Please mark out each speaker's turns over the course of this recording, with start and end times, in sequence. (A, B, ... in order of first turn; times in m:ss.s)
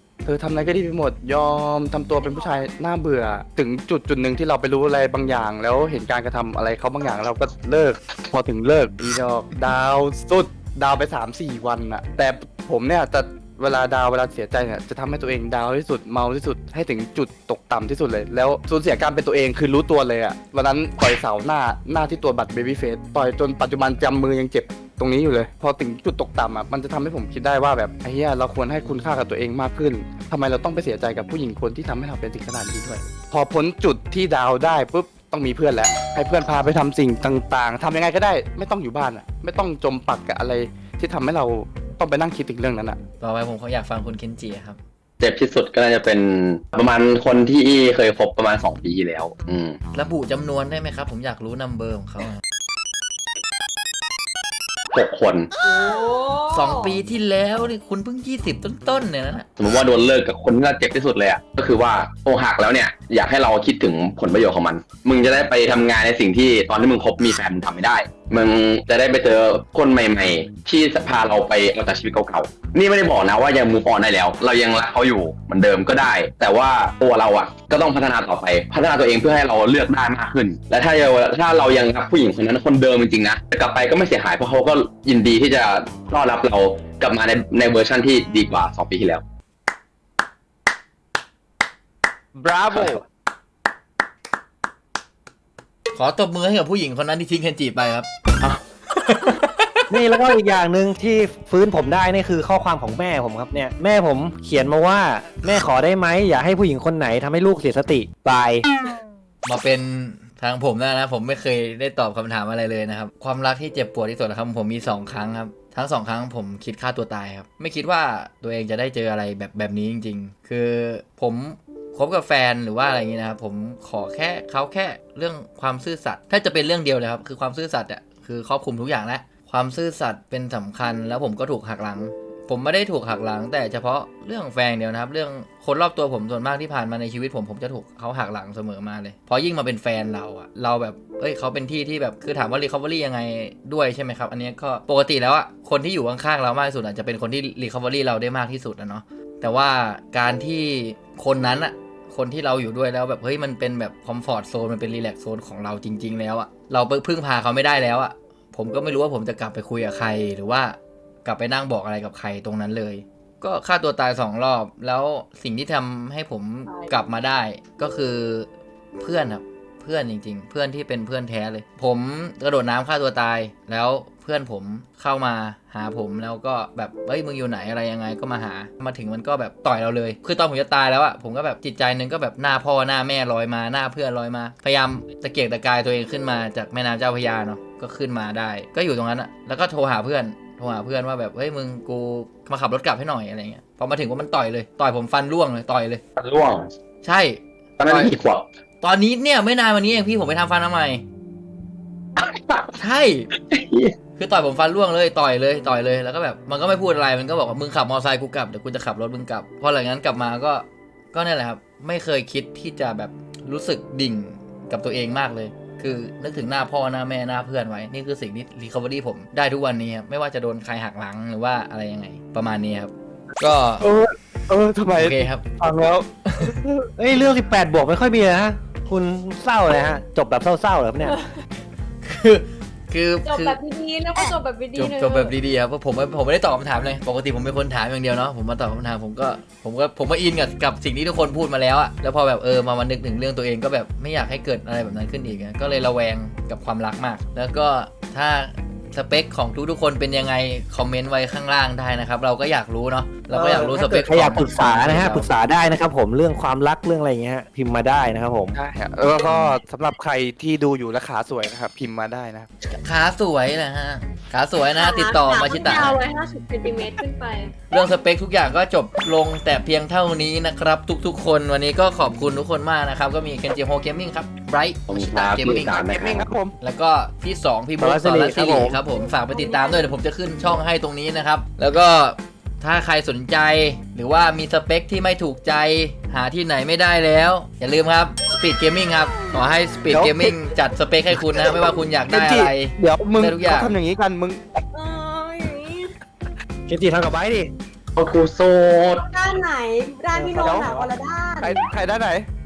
0:00.2-0:43.0 A
0:02.2-0:02.6 B
0:43.2-0:44.8 C
0:45.2-0:49.8 D
0:49.9-0:52.4 C
0:54.9-0:55.5 D
0:55.6-0:57.0 B
0:56.5-0:59.5 C
0:59.6-1:29.2 D
1:32.4-1:33.0 A
1:32.7-1:33.0 D
1:35.9-1:38.1 C
1:38.9-1:39.7 C
1:39.9-1:48.7 E
1:49.4-2:48.5 C
2:46.7-2:46.9 B
2:49.0-3:16.0 C
3:16.2-3:16.7 D
3:17.0-3:18.1 C
3:17.8-3:18.5 D
3:18.8-3:21.0 C
3:22.2-3:22.8 D
3:22.8-3:23.3 C
3:23.4-3:24.0 D
3:24.2-3:43.9 C
3:43.8-3:46.9 A
3:45.0-3:45.4 C
3:46.3-3:46.6 C
3:47.0-3:51.2 E
3:51.0-3:51.4 B
3:52.0-3:53.6 C
3:53.2-3:55.4 B
3:54.8-4:15.3 C
4:13.3-4:18.6 E
4:18.6-4:22.5 A
4:19.2-4:19.6 C
4:22.7-4:26.0 C
4:24.8-4:27.5 B
4:27.7-4:35.9 C
4:34.9-4:36.2 D
4:35.6-4:36.6 A
4:36.6-4:53.7 C
4:37.8-4:38.8 E
4:39.3-4:40.0 B
4:49.9-4:50.3 A
4:52.1-4:54.4 A
4:54.7-4:55.9 B
4:56.7-4:57.5 E
4:58.0-4:59.0 D
4:59.1-5:01.6 B
5:00.1-5:00.9 E
5:00.4-5:00.8 A
5:01.4-5:02.3 A